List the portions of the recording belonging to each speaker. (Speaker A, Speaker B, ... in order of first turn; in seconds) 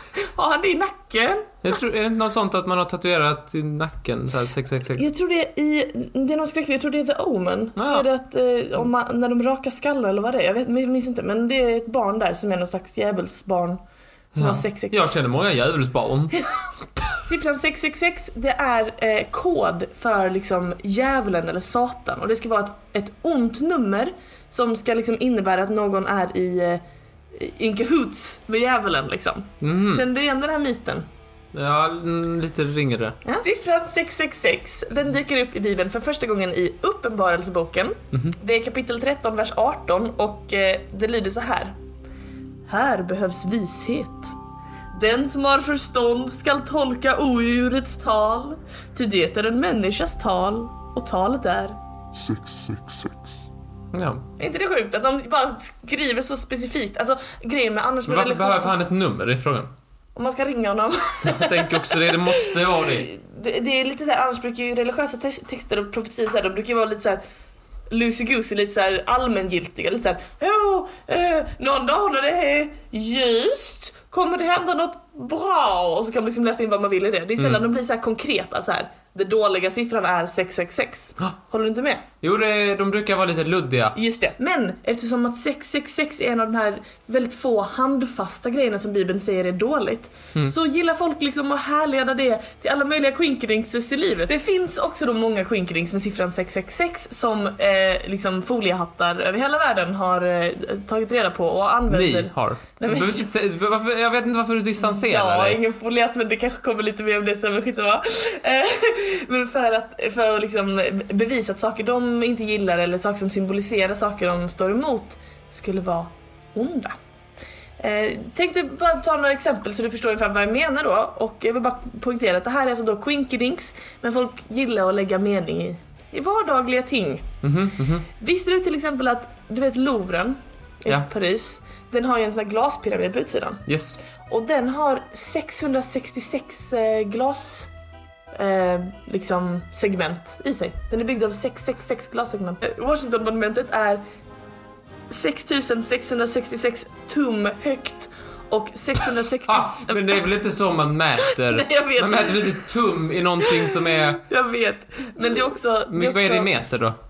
Speaker A: 0.1-1.6, 5.0-13.8, 14.3-15.0, 17.2-26.8, 27.3-31.1, 33.2-41.7, 42.7-44.3, 44.9-51.8, 54.4-58.8, 60.1-67.2, 67.9-82.0, 83.9-103.3, 104.8-116.9, 117.8-127.3, 128.1-133.6, 134.2-137.7, 138.3-144.0, 145.1-150.2, 151.2-152.6, 153.5-156.5
Speaker B: 1.6-5.1, 7.8-8.1, 14.3-16.3, 29.6-30.0, 31.5-33.2, 53.9-54.2, 58.0-59.7, 61.2-63.1, 82.2-84.0, 101.9-105.6, 127.4-128.1, 133.7-134.0, 149.5-154.2, 155.9-156.9